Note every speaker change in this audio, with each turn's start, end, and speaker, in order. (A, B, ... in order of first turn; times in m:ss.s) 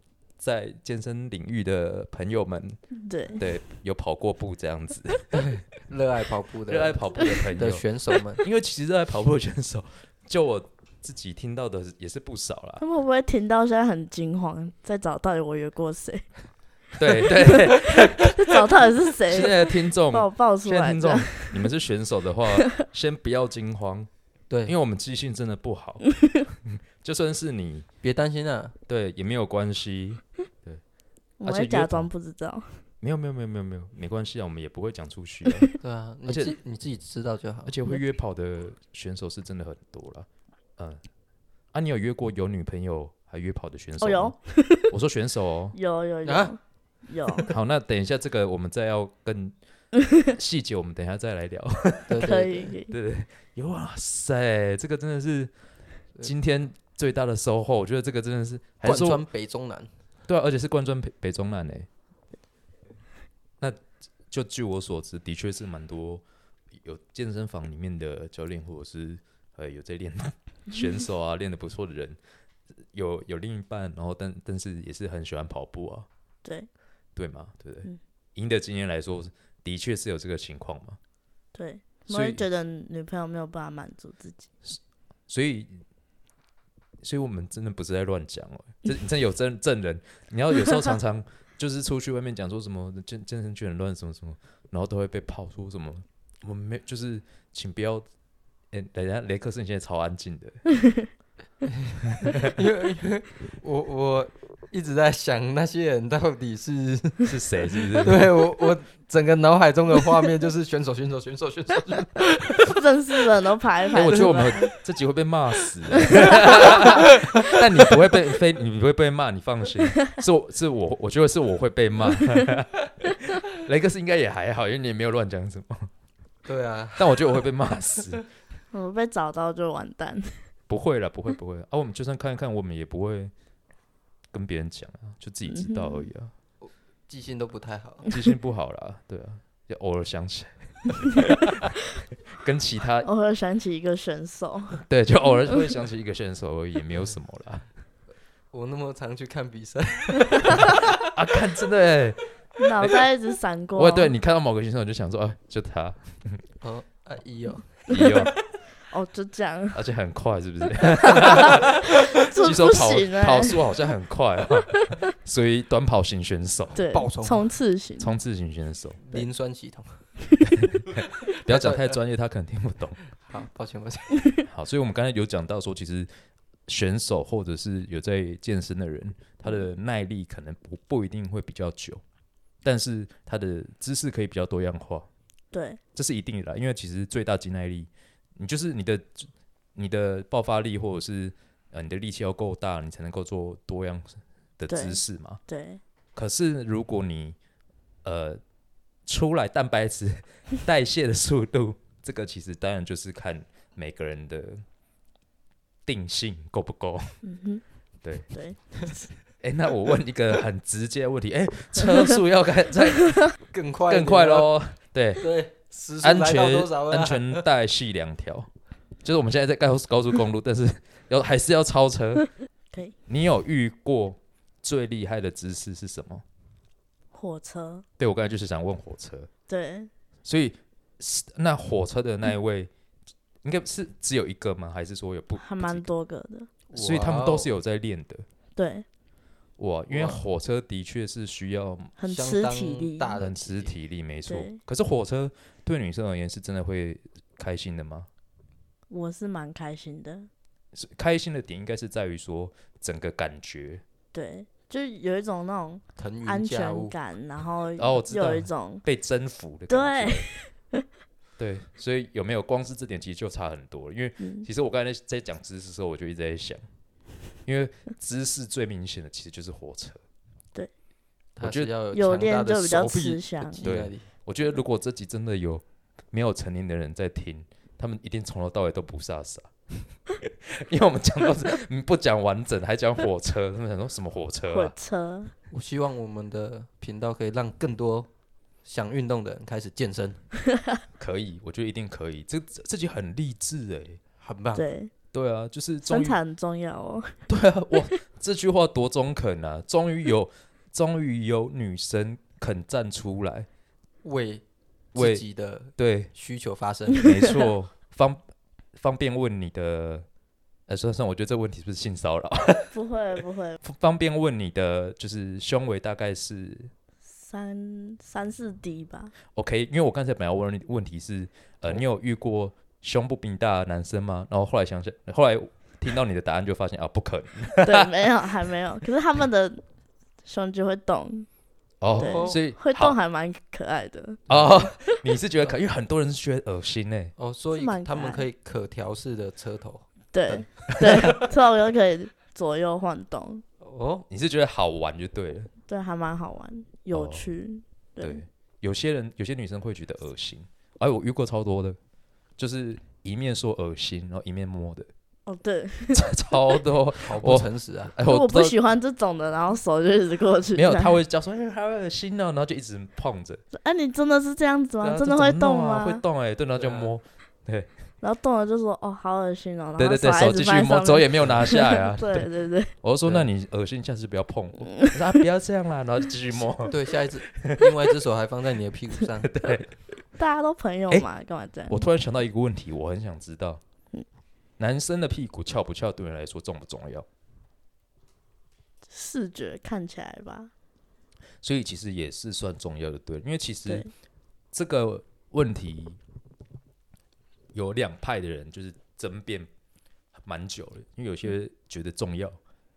0:00.4-0:02.8 A
0:03.0-0:03.4 B
0:03.4-0:05.5 A
0:05.3-0:08.4 C
0:06.7-0:12.8 A
0:12.8-0:16.3 B
0:17.0-0:18.6 A
0:17.2-0:21.6 B
0:19.3-0:24.1 A
0:24.6-0:27.9 A
0:28.0-0:28.8 C
0:28.9-0:30.8 A
0:31.4-0:32.8 B
0:31.4-0:32.1 A
0:33.0-0:35.7 A
0:35.8-0:37.8 C
0:36.3-0:36.6 A
0:37.7-0:41.0 A
0:41.7-0:45.8 A
0:44.0-0:44.9 B
0:45.7-0:47.5 B
0:46.2-0:46.6 C
0:47.5-0:49.6 A
0:50.2-0:52.3 A
0:52.1-0:52.7 C
0:52.2-0:52.9 B
0:52.9-0:55.5 A
0:56.2-0:59.2 A
0:58.8-0:59.9 C
1:00.3-1:01.9 A
1:03.6-1:06.2 A
1:06.8-1:12.2 A
1:12.9-1:16.1 A
1:17.2-1:21.0 A
1:21.5-1:24.5 B
1:22.1-1:22.4 A
1:24.7-1:25.8 A
1:27.0-1:38.1 A
1:38.7-1:40.7 A
1:41.6-1:47.4 C
1:42.2-1:42.5 A
1:47.2-1:48.3 A
1:48.0-1:52.8 C
1:52.7-1:54.7 B
1:53.9-2:05.9 A
1:54.0-1:54.4 C
1:56.0-1:56.9 B
1:56.2-1:57.0 C
2:06.4-2:07.5 C
2:07.0-2:08.2 A
2:08.7-2:10.4 B
2:10.7-2:13.3 A
2:14.3-2:16.3 A
2:15.5-2:16.1 B
2:16.6-2:18.1 C
2:18.0-2:21.7 A
2:22.3-2:23.1 A
2:23.0-2:24.8 B
2:24.8-2:27.7 A
2:28.5-2:30.9 C
2:30.9-2:32.2 A
2:32.6-2:34.2 B
2:33.8-2:36.4 A
2:36.6-2:37.7 C
2:37.9-2:38.4 A
2:37.9-2:38.3 B
2:38.9-2:39.9 B
2:39.7-2:46.8 A
2:40.9-2:43.7 B
2:46.7-2:47.5 C
2:46.8-2:48.1 B
2:48.0-2:49.0 A
2:49.0-2:50.0 C
2:50.5-2:53.0 A
2:51.4-2:52.0 C
2:53.1-2:54.3 C
2:54.5-2:56.1 A
2:56.7-3:02.0 A
3:02.6-3:05.1 A
3:05.5-3:05.8 B
3:06.0-3:15.4 A
3:14.7-3:15.8 B
3:16.2-3:17.4 A
3:18.0-3:18.4 A
3:19.1-3:24.6 A
3:25.9-3:27.2 A
3:27.2-3:27.6 B
3:28.0-3:28.3 A
3:28.2-3:29.1 B
3:29.4-3:35.3 A
3:33.5-3:34.5 C
3:35.2-3:37.5 C
3:36.0-3:38.5 A
3:39.0-3:42.3 A
3:43.1-3:46.2 A
3:47.1-3:47.8 B
3:48.0-3:49.3 A
3:49.5-3:49.9 B
3:50.2-3:52.7 A
3:53.4-3:55.9 A
3:55.4-3:56.5 B
3:56.7-3:57.5 C
3:56.8-3:58.3 A
3:58.6-3:58.9 B
3:59.6-4:02.0 A
3:59.9-4:00.2 C
4:02.0-4:03.2 B
4:02.1-4:03.8 C
4:03.2-4:08.1 A
4:04.3-4:04.6 B
4:08.9-4:10.3 B
4:10.7-4:13.8 A
4:14.1-4:18.8 B
4:16.0-4:17.0 C
4:17.8-4:20.3 A
4:19.7-4:20.8 B
4:21.4-4:26.6 A
4:24.2-4:24.5 B
4:27.4-4:30.0 A
4:31.4-4:34.1 C
4:31.4-4:31.7 A
4:31.9-4:33.6 B
4:33.6-4:44.7 A
4:44.5-4:45.3 B
4:45.5-4:48.1 C
4:48.6-4:50.2 C
4:51.0-4:54.0 A
4:54.2-4:54.6 C
4:54.6-4:54.9 B
4:55.1-4:56.2 A
4:55.9-4:57.2 B
4:57.3-5:03.5 A
5:04.0-5:04.4 C
5:05.0-5:06.1 A
5:05.0-5:07.1 C
5:07.0-5:08.2 A
5:08.8-5:10.1 A
5:10.7-5:12.8 A
5:12.7-5:13.6 B
5:13.6-5:16.7 A
5:17.2-5:19.1 B
5:19.3-5:27.9 A
5:27.6-5:29.6 B
5:30.2-5:31.3 B
5:31.8-5:33.0 A
5:32.0-5:32.4 C
5:32.0-5:35.0 B
5:34.3-5:37.2 A
5:37.2-5:40.5 C
5:37.5-5:38.3 B
5:40.1-5:43.4 B
5:40.7-5:41.2 A
5:41.0-5:41.3 C
5:43.6-5:44.1 C
5:44.1-5:45.5 A
5:45.7-5:48.2 B
5:46.9-5:47.3 A
5:48.0-5:51.8 A
5:52.4-5:54.9 A
5:55.3-5:56.6 B
5:55.9-5:58.6 A
5:57.1-5:57.9 C
5:58.1-6:01.0 B
6:00.6-6:03.4 A
6:03.5-6:06.0 B
6:04.8-6:07.7 A
6:06.6-6:06.9 C
6:08.0-6:12.7 B
6:09.8-6:16.8 A
6:16.5-6:19.5 C
6:17.3-6:17.7 A
6:19.3-6:19.8 A
6:20.2-6:21.8 B
6:21.7-6:23.6 A
6:24.6-6:27.1 A
6:28.9-6:30.5 B
6:31.4-6:33.9 A
6:34.5-6:36.0 A
6:37.5-6:39.5 A
6:40.1-6:42.4 A